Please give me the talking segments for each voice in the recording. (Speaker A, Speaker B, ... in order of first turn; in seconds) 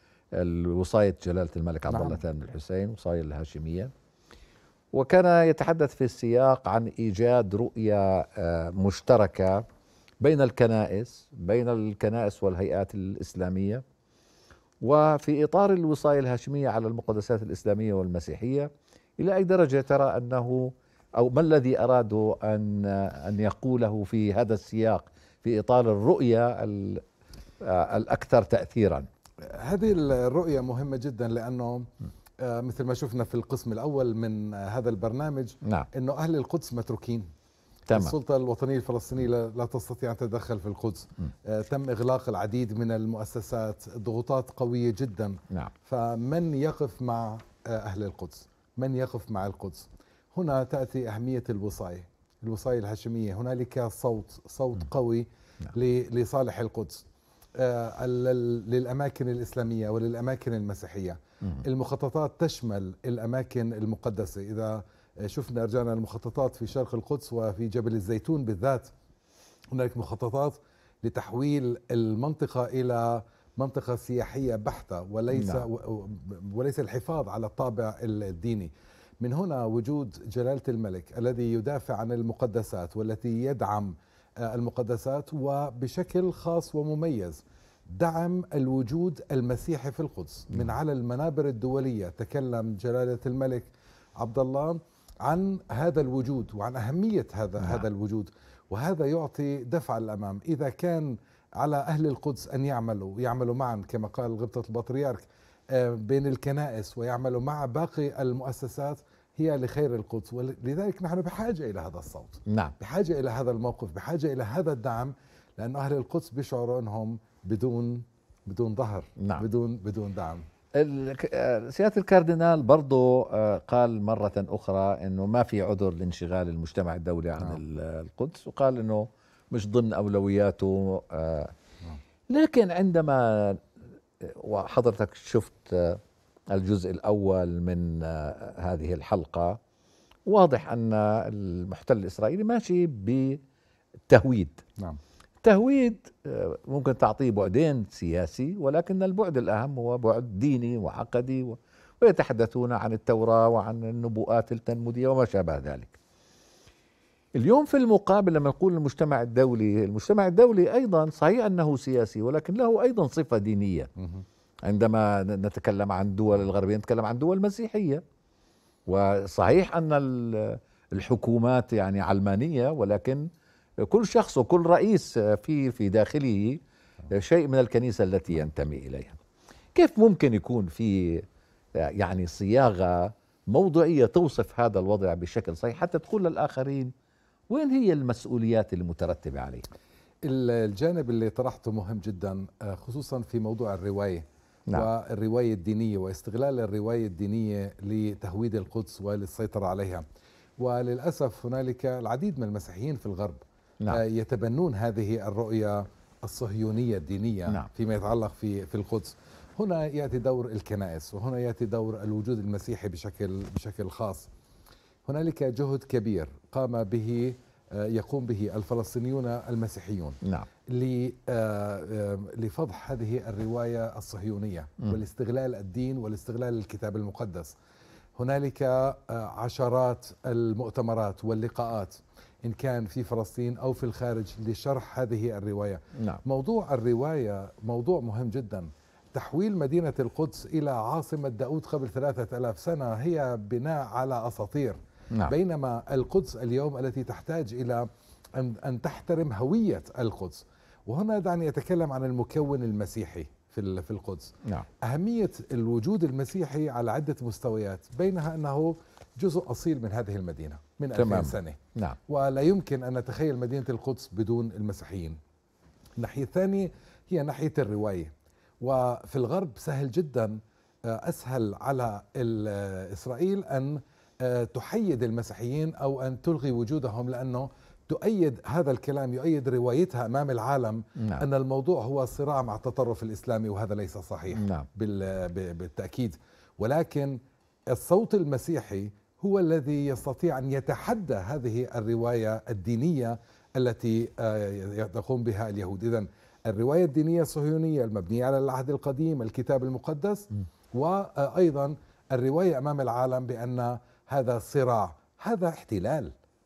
Speaker A: 0.3-3.9, 4.9-9.7, 10.2-13.8, 14.8-27.0, 27.6-29.1, 75.3-75.6, 97.6-97.8, 112.5-112.7, 119.2-119.4, 120.8-131.5, 132.3-133.6, 134.2-136.0, 136.5-139.6, 140.3-143.4, 144.1-144.6, 145.4-156.0, 157.3-163.9, 164.6-168.0, 168.9-173.2, 173.8-179.2, 179.7-181.2, 181.8-186.9, 187.5-189.6, 220.2-220.5, 260.9-262.0, 281.0-281.2, 284.3-284.7
Speaker B: 1.9-2.2, 29.5-31.9, 32.4-37.3, 37.9-57.0, 57.6-68.9, 69.7-120.4, 164.0-164.2, 190.2-200.0, 200.6-214.3, 215.1-220.2, 220.7-227.5, 228.2-265.2, 266.0-270.4, 270.9-287.2, 287.7-306.1